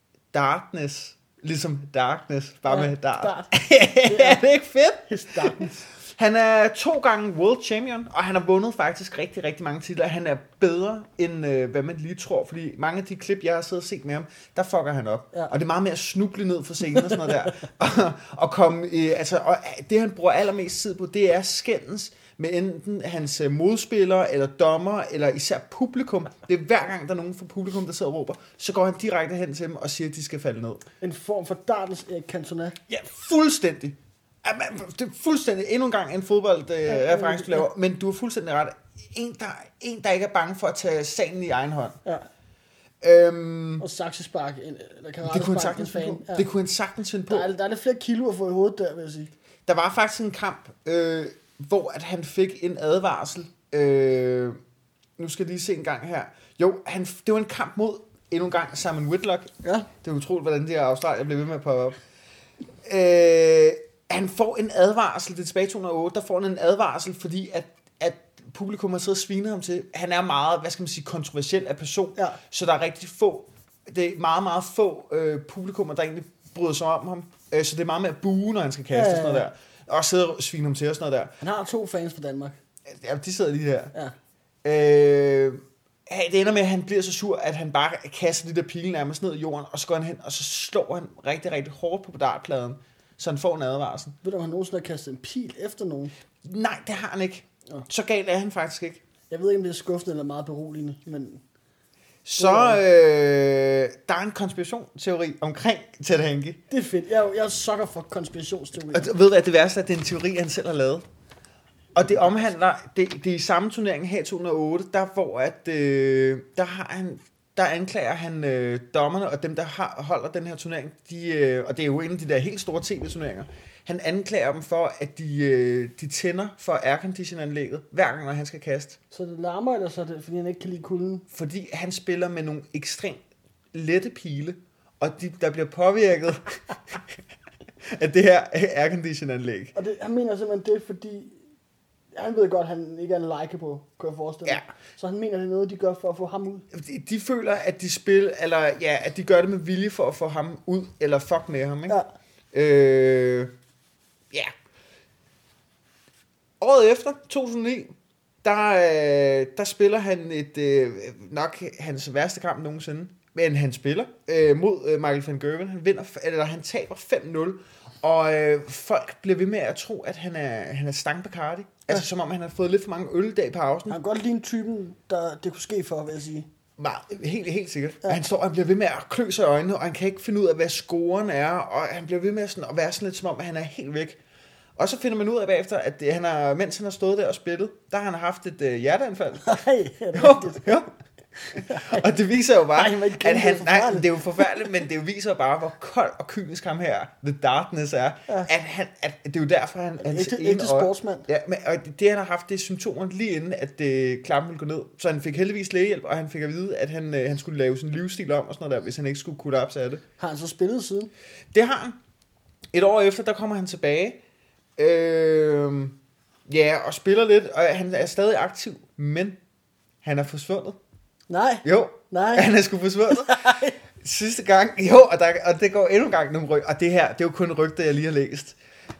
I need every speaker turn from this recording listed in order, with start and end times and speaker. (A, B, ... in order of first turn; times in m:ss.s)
0:00.3-0:30.8 A
0:02.7-0:04.4 B
0:05.1-0:05.8 B
0:31.0-0:32.8 B
0:32.9-0:42.0 A
0:36.9-0:37.7 B
0:43.0-0:43.8 A
0:43.8-0:46.5 B
0:45.2-0:47.5 A
0:47.3-0:49.3 B
0:49.6-0:54.6 A
0:55.2-1:02.0 A
0:59.6-0:59.9 B
1:02.8-1:21.4 A
1:18.9-1:19.5 B
1:21.4-1:22.6 B
1:22.9-1:23.9 A
1:24.6-1:34.2 A
1:34.2-1:36.1 B
1:36.4-1:39.0 A
1:39.3-1:41.4 B
1:42.2-1:46.6 A
1:42.4-1:42.8 B
1:46.7-1:49.1 B
1:48.9-1:51.0 A
1:51.9-2:09.0 A
2:09.1-2:11.2 B
2:11.3-2:13.2 A
2:13.7-2:17.2 A
2:17.8-2:19.7 A
2:19.7-2:21.4 B
2:22.1-2:26.6 B
2:26.7-2:32.0 A
2:32.5-2:33.5 A
2:36.6-2:37.9 A
2:38.4-2:54.0 A
2:53.9-2:56.5 B
2:56.8-3:04.2 A
3:04.8-3:09.6 A
3:09.4-3:10.8 B
3:10.1-3:10.9 A
3:11.4-3:12.0 B
3:11.6-3:30.0 A
3:12.7-3:14.5 B
3:20.0-3:21.3 B
3:30.2-3:31.1 B
3:31.5-3:32.0 A
3:32.7-3:34.2 A
3:34.8-3:39.4 A
3:40.0-3:40.8 A
3:41.3-3:42.5 B
3:41.6-3:48.6 A
3:43.1-3:43.8 B